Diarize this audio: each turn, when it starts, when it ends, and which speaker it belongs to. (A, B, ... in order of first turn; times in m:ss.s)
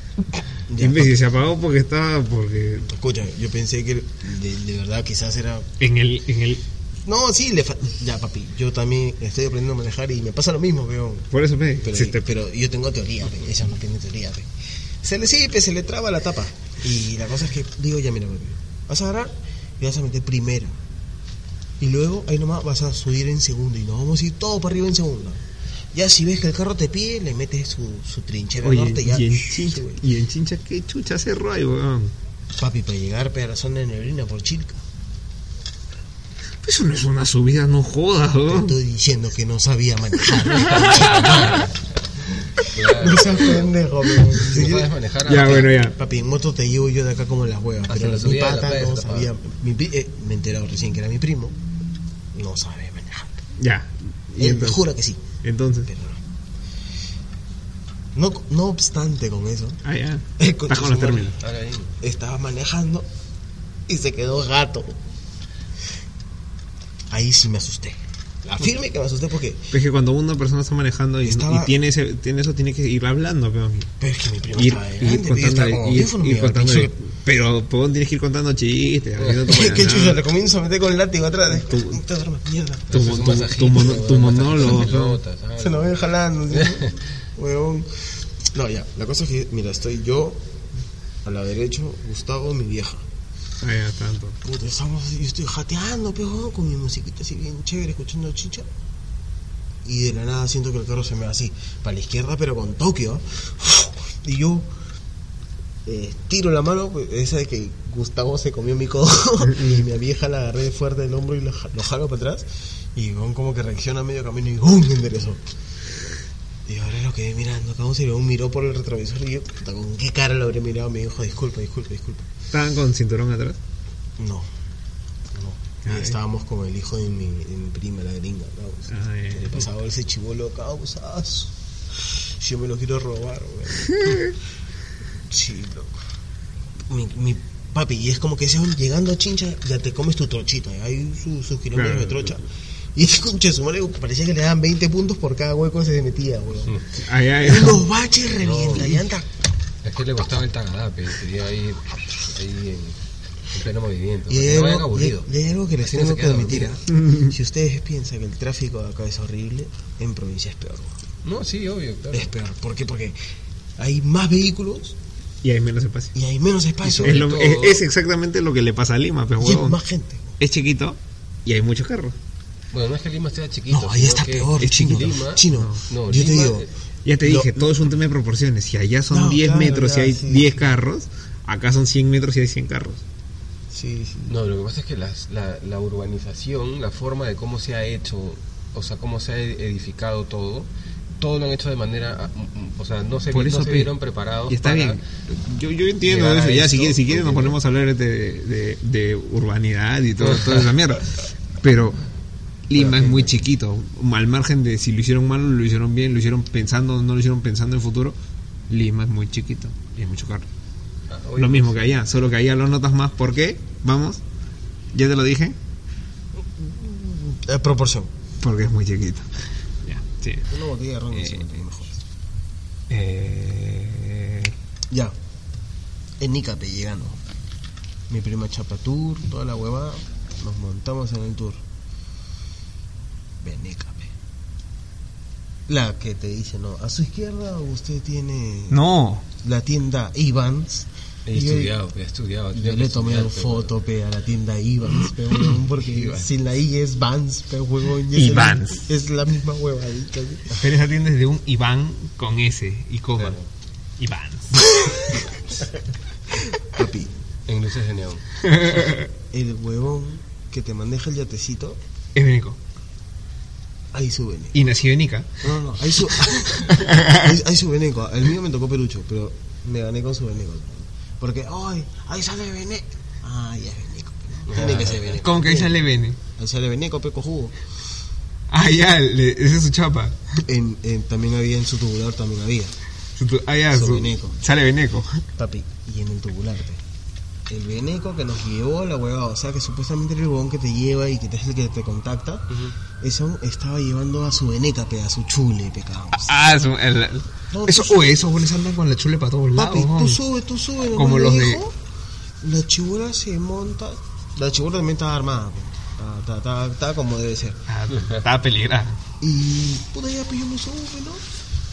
0:00.7-0:01.2 A
0:00.8-0:02.9 B
0:02.9-0:05.7 A
0:05.8-0:06.6 B
0:07.0-0:11.3 A
0:11.3-0:12.2 B
0:11.8-0:14.5 A
0:15.0-0:20.7 A
0:21.8-0:30.0 A
0:28.6-0:32.1 B
0:32.6-0:34.8 A
0:36.6-0:38.8 B
0:38.4-0:41.7 A
0:40.6-0:41.7 C
0:40.7-0:41.4 B
0:42.6-0:43.7 C
0:42.6-0:51.6 A
0:44.3-0:45.7 C
0:45.2-0:46.0 B
0:47.9-0:49.3 C
0:52.3-0:53.4 A
0:53.6-0:54.8 B
0:54.4-0:55.2 A
0:55.4-0:55.9 B
0:55.8-0:56.2 A
0:58.1-0:59.8 A
0:59.8-1:01.4 B
1:00.4-1:01.4 A
1:01.4-1:01.9 C
1:02.0-1:03.1 A
1:03.9-1:05.0 A
1:07.1-1:09.7 A
1:09.7-1:13.9 B
1:11.2-1:11.7 A
1:14.0-1:16.9 A
1:14.5-1:20.2 B
1:19.2-1:19.5 C
1:19.4-1:22.9 A
1:21.5-1:22.0 B
1:22.9-1:25.2 B
1:22.9-1:25.9 C
1:25.6-1:30.4 A
1:26.5-1:27.0 C
1:31.2-1:33.0 A
1:33.6-1:34.4 B
1:34.4-1:38.7 A
1:39.8-1:44.7 A
1:45.8-1:55.4 A
1:56.6-2:02.3 A
2:02.5-2:03.6 B
2:04.2-2:04.5 A
2:05.3-2:14.3 A
2:05.8-2:06.1 B
2:08.9-2:09.6 B
2:13.9-2:14.3 B
2:15.3-2:15.9 A
2:16.9-2:22.4 A
2:21.7-2:22.4 B
2:22.9-2:26.8 A
2:27.0-2:27.9 B
2:27.4-2:29.3 A
2:28.4-2:29.0 C
2:29.8-2:33.0 C
2:33.5-2:35.3 C
2:34.3-2:40.9 A
2:35.8-2:36.7 C
2:36.9-2:37.3 B
2:41.2-2:42.3 C
2:42.1-2:43.2 A
2:43.8-2:45.0 A
2:45.4-2:46.1 B
2:46.1-2:47.3 A
2:46.8-2:47.8 C
2:46.9-2:49.8 B
2:49.4-2:50.4 A
2:50.4-2:52.1 B
2:52.7-2:56.7 C
2:53.7-2:56.7 A
2:54.6-2:55.8 B
2:57.0-3:03.0 B
2:57.2-2:57.9 A
2:59.1-3:00.6 A
3:03.7-3:04.3 A
3:04.3-3:10.7 C
3:11.2-3:15.0 C
3:13.3-3:13.9 B
3:14.5-3:22.0 B
3:16.0-3:17.6 C
3:20.2-3:20.7 C
3:22.7-3:28.2 B
3:22.7-3:23.4 C
3:28.7-3:30.5 B
3:31.1-3:32.0 C
3:31.4-3:34.2 B
3:34.9-3:35.6 B
3:36.4-3:38.1 A
3:38.4-3:39.3 B
3:39.8-3:40.5 B
3:40.5-3:42.0 A
3:41.1-3:41.5 B
3:42.9-3:44.5 B
3:44.9-3:45.1 A
3:46.2-3:47.2 A
3:48.1-3:51.6 A
3:53.4-3:54.1 A
3:55.7-3:58.8 A
3:58.7-3:59.2 B
3:59.4-4:01.8 A
4:01.2-4:03.7 C
4:02.5-4:10.6 A
4:05.8-4:06.3 C
4:08.1-4:08.9 B
4:10.5-4:13.4 B
4:13.2-4:13.5 C
4:14.0-4:15.2 B
4:16.5-4:17.1 A
4:17.5-4:18.2 C
4:18.4-4:19.1 B
4:19.3-4:21.8 A
4:22.1-4:22.6 B
4:23.9-4:24.6 A
4:24.5-4:25.4 B
4:25.4-4:35.8 A
4:26.1-4:27.3 B
4:34.5-4:35.2 C
4:34.6-4:36.2 B
4:36.4-4:37.6 A
4:38.5-4:40.4 B
4:40.4-4:42.7 A
4:43.2-4:45.2 B
4:43.7-4:44.4 A
4:45.4-4:46.8 A
4:47.5-4:52.4 A
4:52.5-4:52.7 C
4:53.0-4:56.4 A
4:56.1-5:00.2 B
4:57.5-4:58.1 A
4:59.5-5:01.7 A
5:00.9-5:01.6 B
5:02.4-5:07.6 A
5:07.7-5:09.0 B
5:07.9-5:08.2 C
5:09.2-5:11.2 A